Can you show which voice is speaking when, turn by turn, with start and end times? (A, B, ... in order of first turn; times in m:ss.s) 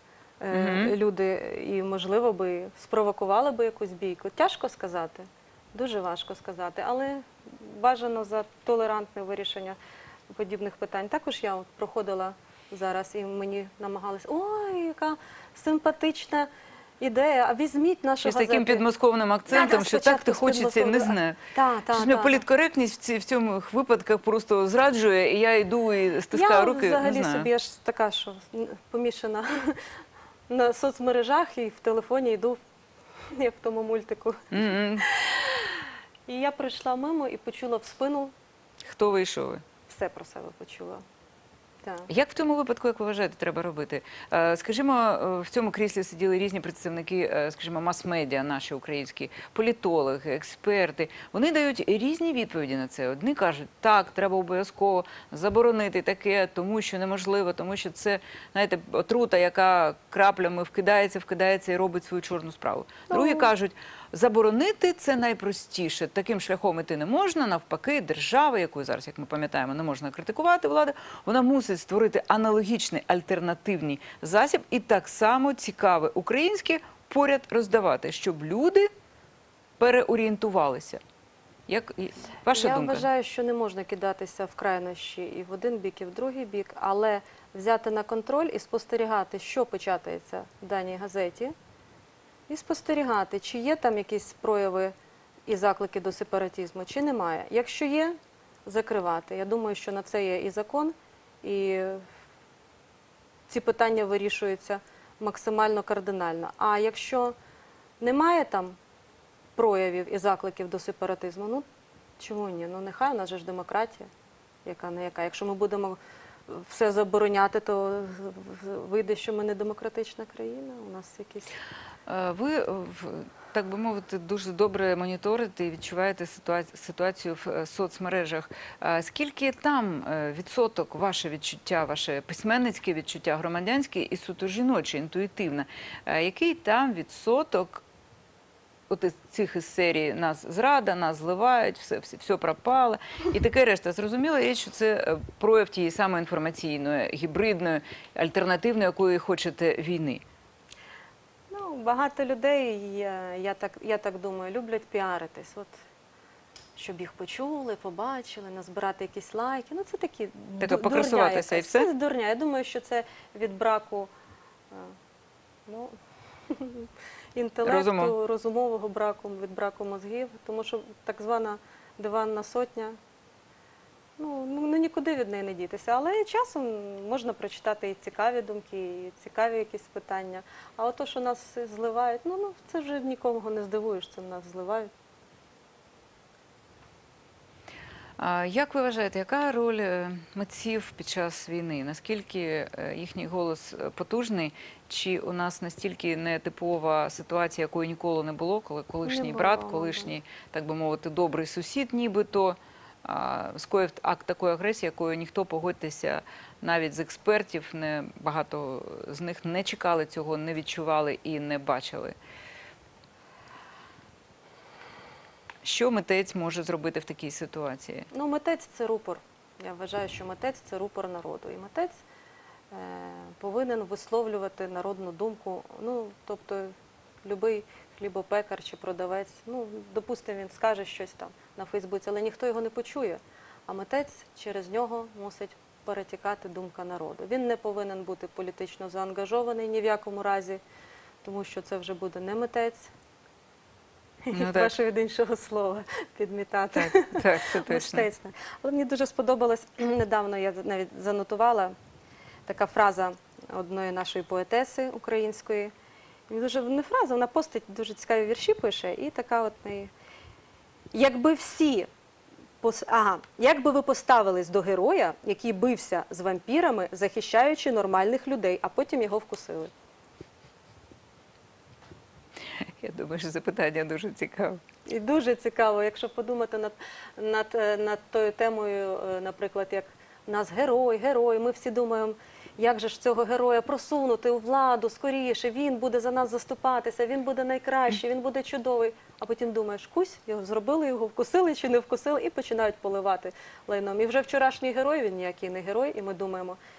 0:00.4-0:09.8 A
0:00.5-0:00.9 B
0:10.3-0:16.5 A
0:17.0-0:18.8 A
0:18.2-0:21.4 B
0:19.5-0:22.4 A
0:21.9-0:27.5 B
0:26.3-0:29.8 A
0:30.5-0:32.6 A
0:33.3-0:38.3 A
0:34.5-0:35.1 B
0:38.8-0:39.6 B
0:39.9-0:41.0 A
0:41.8-0:42.1 A
0:42.1-1:18.9 B
1:03.1-1:03.5 A
1:19.8-1:21.0 B
1:21.7-1:23.1 B
1:22.5-1:31.5 A
1:32.5-1:35.0 A
1:35.5-1:42.1 A
1:43.5-1:47.4 A
1:48.0-1:48.8 A
1:49.6-1:51.6 A
1:52.2-1:54.1 A
1:54.6-2:01.5 A
2:02.1-2:17.8 B
2:18.9-2:30.2 B
2:31.5-2:35.7 A
2:36.8-2:44.1 A
2:40.6-2:41.9 B
2:45.7-2:46.0 A
2:46.5-2:53.0 A
2:47.6-2:48.2 B
2:54.2-3:04.9 A
3:08.2-3:32.2 B
3:19.0-3:20.1 A
3:35.6-3:38.1 B
3:38.1-3:42.0 A
3:42.7-4:00.6 A
4:01.2-4:02.9 A
4:04.3-4:11.8 A
4:04.3-4:04.7 B
4:06.8-4:08.1 B
4:12.5-4:15.7 A
4:16.3-4:19.9 A
4:20.9-4:21.9 A
4:22.6-4:29.7 A
4:32.6-4:34.6 B
4:34.9-4:56.6 A